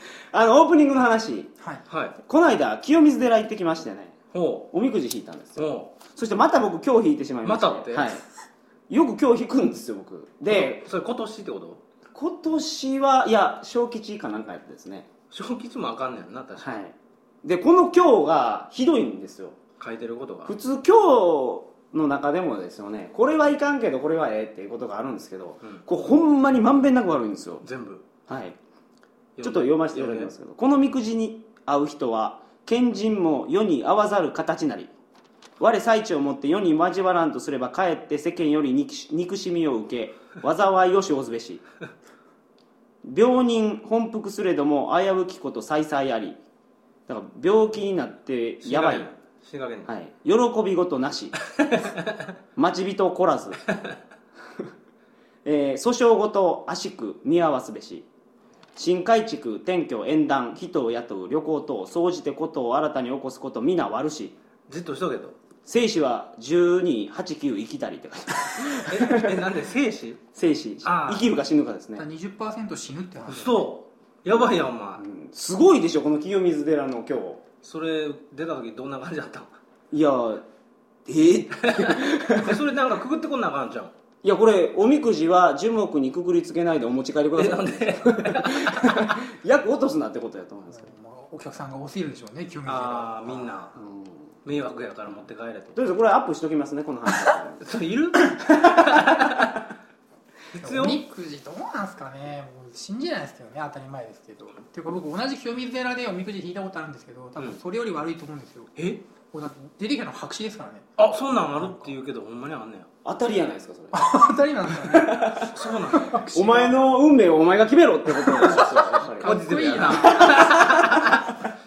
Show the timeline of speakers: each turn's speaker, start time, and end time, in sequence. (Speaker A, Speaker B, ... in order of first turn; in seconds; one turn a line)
Speaker A: 0.3-1.5
Speaker B: 1.6-1.8
Speaker C: 1.9-2.2
Speaker A: 2.2-4.2
Speaker C: 4.3-4.7
Speaker A: 4.7-8.2
Speaker C: 5.6-6.0
Speaker C: 7.5-8.2
Speaker A: 8.9-10.9
Speaker C: 10.5-11.8
Speaker A: 12.1-15.1
Speaker C: 15.3-16.8
Speaker A: 16.6-19.6
Speaker C: 19.8-20.5
Speaker A: 20.4-27.6
Speaker C: 27.6-28.1
Speaker A: 28.3-28.6
Speaker C: 29.4-30.3
Speaker A: 29.4-34.9
Speaker A: 35.6-41.6
Speaker A: 43.0-46.4
Speaker A: 47.1-49.1
Speaker C: 48.6-49.9
Speaker A: 49.9-51.4
Speaker C: 51.6-52.2
Speaker A: 52.5-53.6
Speaker A: 55.4-58.1
Speaker A: 58.8-64.4
Speaker C: 64.7-65.4
Speaker A: 65.7-69.4
Speaker C: 68.7-70.2
Speaker A: 70.3-72.0
Speaker C: 70.8-71.3
Speaker B: 72.0-73.7
Speaker C: 73.3-75.0
Speaker A: 75.0-77.5
Speaker C: 77.6-79.5
Speaker A: 79.9-80.5
Speaker A: 81.1-82.6
Speaker C: 81.6-83.9
Speaker A: 84.2-90.9
Speaker C: 87.4-89.1
Speaker B: 90.7-93.5
Speaker C: 92.7-93.8
Speaker A: 93.8-94.2
Speaker C: 94.4-95.8
Speaker A: 95.8-97.6
Speaker C: 97.6-99.7
Speaker A: 98.5-99.4
Speaker C: 100.5-101.0
Speaker B: 100.6-108.7
Speaker C: 108.8-109.0
Speaker B: 109.3-110.9
Speaker C: 111.0-112.9
Speaker B: 111.5-111.9
Speaker A: 113.0-114.2
Speaker B: 113.9-115.5
Speaker A: 114.8-121.2
Speaker C: 115.5-116.2
Speaker B: 116.0-116.8
Speaker B: 118.2-120.5
Speaker C: 118.4-121.4